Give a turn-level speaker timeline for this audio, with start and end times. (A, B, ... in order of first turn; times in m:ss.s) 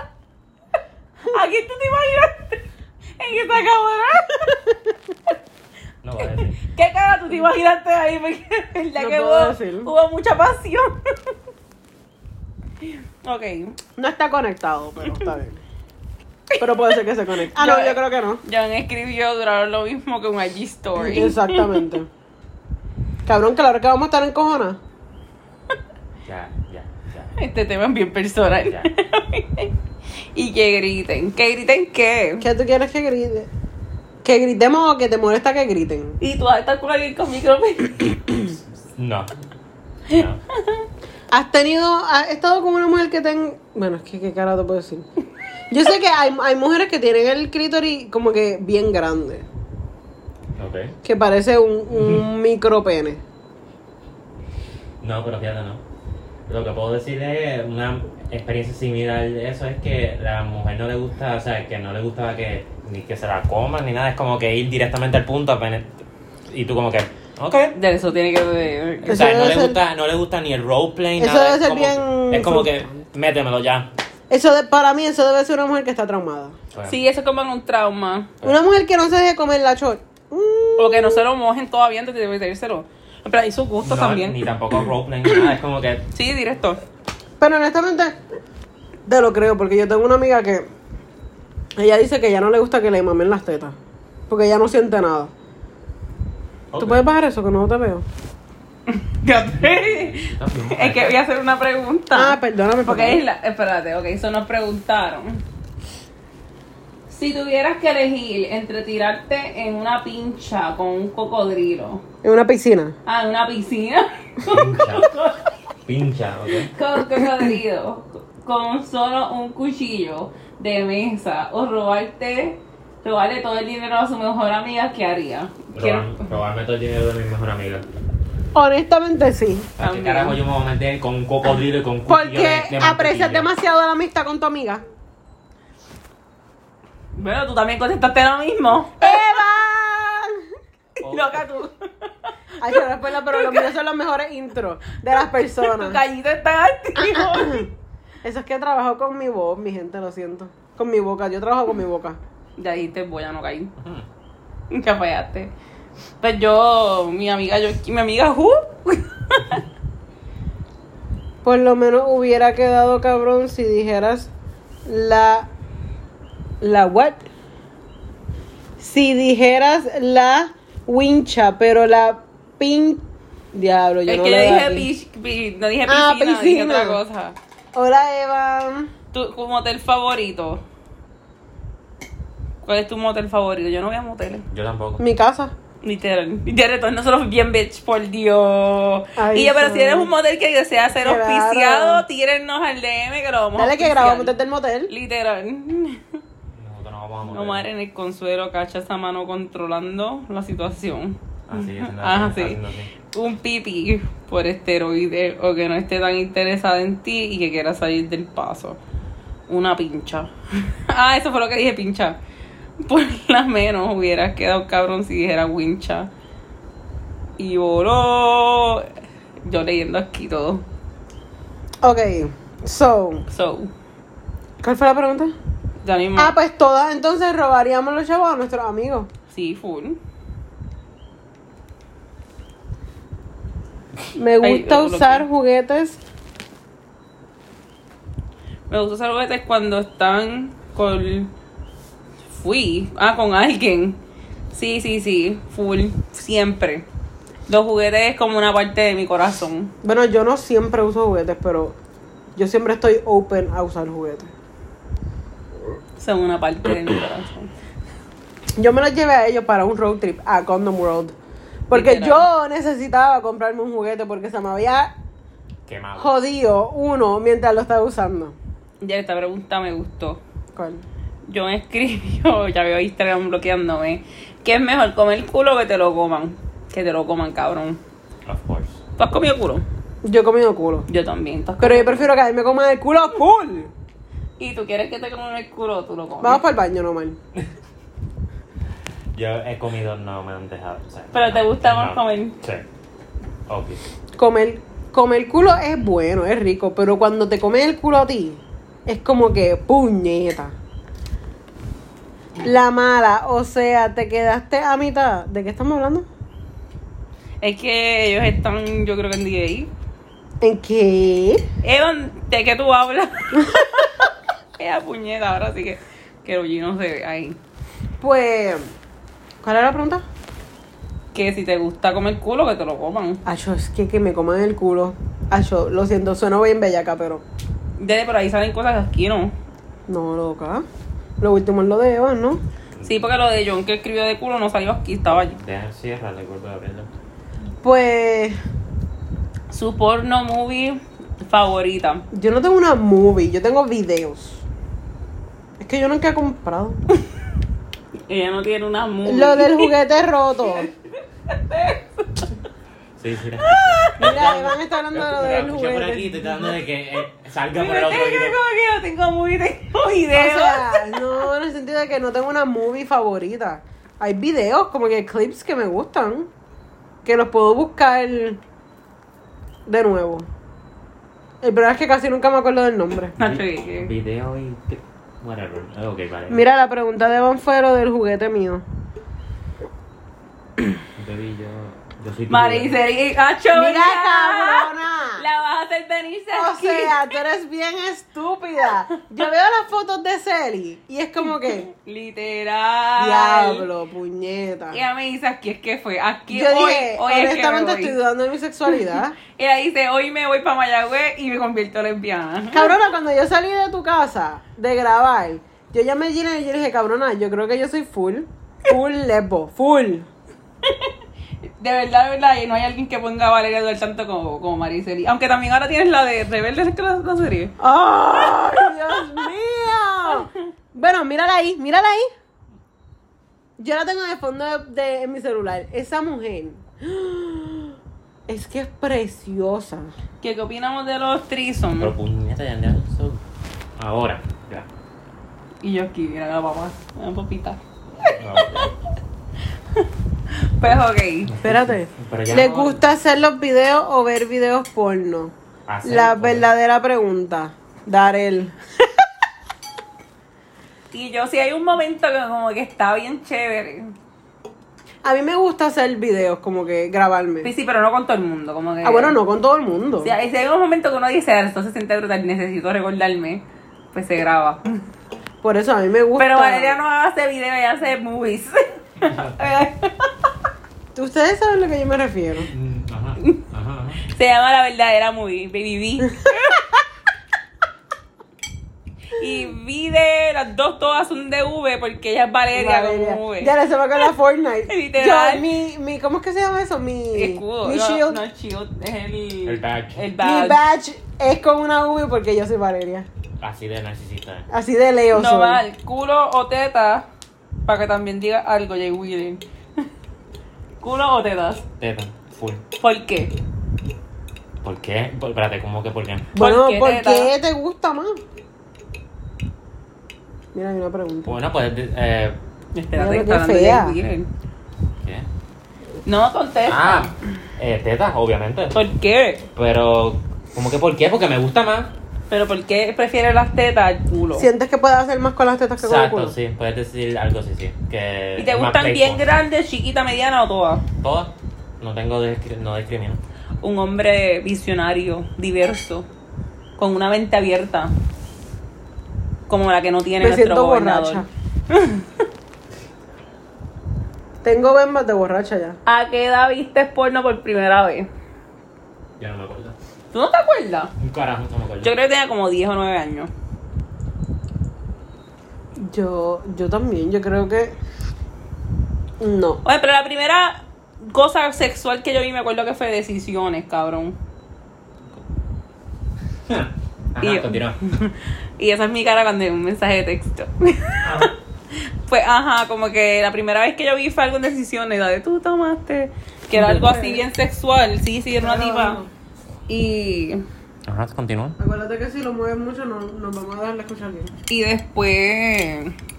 0:01.2-0:02.6 A
0:03.2-0:04.7 A
0:06.0-0:06.6 B
0:06.6-0:11.3 A
0:09.0-0:09.9 C
0:12.8-0:13.8 A
0:14.0-0:15.6 C
0:16.6-0:18.4 C
0:17.4-0:21.9 A
0:21.0-0:22.1 C
0:23.2-0:24.8 C
0:26.2-0:27.3 B
0:27.4-0:29.7 A
0:28.5-0:28.9 B
0:30.3-0:32.5 A
0:32.4-0:33.5 C
0:34.2-0:36.2 C
0:36.2-0:38.5 A
0:39.0-0:39.3 B
0:40.1-0:40.4 B
0:41.3-0:45.1 C
0:45.7-0:49.4 C
0:50.6-0:50.9 B
0:51.0-0:53.2 C
0:51.9-0:52.2 B
0:55.0-0:55.8 B
0:56.5-1:05.9 B
1:06.5-1:07.7 B
1:07.7-1:09.4 A
1:09.0-1:09.8 C
1:09.1-1:13.9 B
1:11.2-1:12.9 C
1:14.3-1:16.6 C
1:16.7-1:17.0 B
1:16.9-1:18.3 A
1:18.4-1:21.2 C
1:20.8-1:24.4 A
1:23.8-1:26.0 B
1:26.1-1:26.8 A
1:27.4-1:28.2 C
1:29.1-1:30.7 C
1:31.8-1:33.8 C
1:34.3-1:35.3 C
1:36.7-1:37.1 B
1:36.8-1:38.0 C
1:38.9-1:45.4 A
1:39.5-1:41.2 B
1:42.1-1:43.2 C
1:47.1-1:52.0 A
1:52.2-1:52.9 C
1:53.0-1:55.5 A
1:54.5-1:55.1 B
1:55.9-1:56.7 B
1:56.7-2:06.3 A
2:05.7-2:07.8 B
2:08.5-2:09.7 C
2:09.8-2:13.5 B
2:09.8-2:10.4 A
2:12.1-2:14.8 C
2:17.2-2:19.3 A
2:19.0-2:20.5 C
2:21.0-2:21.4 B
2:21.0-2:23.7 A
2:22.6-2:26.0 C
2:25.5-2:27.7 A
2:27.0-2:27.7 C
2:28.2-2:32.2 C
2:32.6-2:33.7 A
2:33.8-2:34.0 B
2:34.7-2:35.5 A
2:36.2-2:39.6 A
2:41.4-2:44.3 C
2:44.8-2:45.5 C
2:46.6-2:47.3 C
2:48.8-2:54.9 C
2:54.1-2:57.4 A
2:55.8-2:57.0 C
2:57.7-2:58.9 C
2:59.1-3:00.6 A
3:02.6-3:04.4 A
3:04.5-3:05.0 B
3:05.0-3:05.5 C
3:05.8-3:14.3 A
3:09.2-3:10.1 C
3:11.0-3:12.0 C
3:13.6-3:14.9 C
3:14.9-3:16.0 A
3:16.5-3:17.6 B
3:17.3-3:22.6 A
3:21.5-3:22.9 B
3:23.1-3:28.8 A
3:29.5-3:32.2 A
3:32.8-3:36.1 A
3:37.4-3:38.9 A
3:39.4-3:40.6 A
3:41.8-3:43.2 C
3:43.3-3:43.7 A
3:44.6-3:45.3 C
3:45.8-3:46.3 A
3:46.2-3:49.1 C
3:49.3-3:50.0 A
3:54.1-3:56.0 C
3:54.4-3:55.2 A
3:58.7-4:01.3 A
4:02.3-4:04.0 A
4:04.5-4:06.8 A
4:07.5-4:09.7 A
4:09.8-4:11.8 C
4:12.4-4:14.3 C
4:16.0-4:17.5 A
4:18.6-4:21.1 C
4:21.7-4:24.9 C
4:21.7-4:22.2 A
4:25.7-4:26.1 B
4:26.0-4:28.4 C
4:28.8-4:30.2 A
4:30.5-4:30.8 C
4:31.3-4:37.8 A
4:38.2-4:38.8 B
4:39.0-4:39.6 A
4:40.0-4:40.8 C
4:40.9-4:42.1 A
4:41.6-4:43.7 C
4:44.4-4:46.4 A
4:46.2-4:47.2 C
4:49.1-4:52.6 B
4:51.1-4:52.4 A
4:53.5-4:53.8 B
4:54.2-5:00.5 C
5:02.4-5:06.0 C
5:07.4-5:09.7 A
5:10.4-5:11.4 C
5:11.6-5:13.6 A
5:13.4-5:13.7 C
5:14.6-5:17.4 A
5:18.0-5:18.7 C
5:19.4-5:20.0 C
5:21.1-5:23.2 A
5:23.2-5:27.2 C
5:27.8-5:29.3 A
5:29.9-5:30.6 C
5:31.2-5:32.4 C
5:32.8-5:35.4 A
5:35.2-5:36.9 B
5:37.6-5:38.4 C
5:39.5-5:42.0 A
5:42.1-5:44.4 C
5:45.6-5:46.8 C
5:48.1-5:49.7 A
5:49.0-5:50.7 C
5:51.3-5:52.3 A
5:53.0-5:58.4 B
5:53.4-5:54.0 A
5:54.0-5:56.6 C
5:57.5-6:01.0 A
6:00.1-6:06.3 C
6:07.0-6:08.4 C
6:09.7-6:10.3 C
6:11.4-6:13.1 C
6:13.2-6:13.9 A
6:13.2-6:16.4 B
6:16.3-6:18.6 C
6:21.0-6:22.8 B
6:22.3-6:27.0 A
6:23.5-6:25.2 C
6:26.3-6:31.7 C
6:31.4-6:33.7 A
6:33.0-6:34.8 C
6:34.7-6:38.0 A
6:36.3-6:39.2 C
6:39.2-6:42.8 A
6:42.5-6:50.1 C
6:50.6-6:50.9 A
6:51.4-6:57.5 A
6:57.6-7:02.1 C
6:58.3-6:59.2 A
7:03.6-7:07.8 C
7:08.3-7:09.9 C
7:10.2-7:11.9 A
7:11.8-7:13.2 B
7:13.8-7:14.7 B
7:15.6-7:18.7 A
7:18.0-7:18.7 B
7:19.8-7:21.3 A
7:20.6-7:22.8 B
7:21.4-7:28.6 C
7:25.7-7:26.5 B
7:30.9-7:33.9 A
7:35.0-7:37.5 C
7:37.4-7:39.2 A
7:38.8-7:40.1 C
7:40.0-7:44.8 A
7:45.4-7:46.8 C
7:46.2-7:50.1 A
7:50.9-7:52.5 C
7:52.5-7:54.0 B
7:54.0-7:56.6 A
7:56.1-7:56.6 C
7:59.1-8:03.5 A
8:02.5-8:08.2 C
8:04.7-8:05.4 A
8:07.1-8:10.6 A
8:09.4-8:10.0 B
8:10.2-8:13.1 C
8:13.4-8:14.4 B
8:14.5-8:15.6 C
8:15.1-8:17.0 A
8:17.6-8:19.8 A
8:20.8-8:21.6 A
8:21.8-8:22.6 B
8:22.8-8:23.3 A
8:24.6-8:26.3 B
8:26.3-8:28.2 C
8:26.4-8:27.3 A
8:30.5-8:31.3 C
8:31.2-8:32.4 B
8:32.7-8:34.3 A
8:32.9-8:34.0 C
8:36.0-8:37.1 A
8:36.7-8:38.8 B
8:38.7-8:39.5 A
8:39.5-8:41.9 B
8:42.3-8:44.5 A
8:44.3-8:46.4 C
8:45.8-8:49.2 B
8:48.4-8:50.8 A
8:51.0-8:53.2 B
8:53.6-8:56.1 A
8:56.8-8:57.9 A
8:59.5-9:02.1 A
9:00.2-9:01.3 C
9:04.4-9:05.8 C
9:05.8-9:08.1 A
9:09.2-9:09.8 B
9:10.1-9:10.9 A
9:11.0-9:11.9 B
9:11.8-9:13.3 A
9:15.8-9:17.7 C
9:19.2-9:19.6 C
9:19.6-9:24.2 A
9:26.5-9:27.8 B
9:27.2-9:39.0 A
9:31.0-9:31.3 B
9:36.5-9:37.2 C
9:38.4-9:39.1 C
9:39.7-9:40.4 A
9:40.8-9:41.6 B
9:41.6-9:44.3 C
9:44.5-9:45.9 A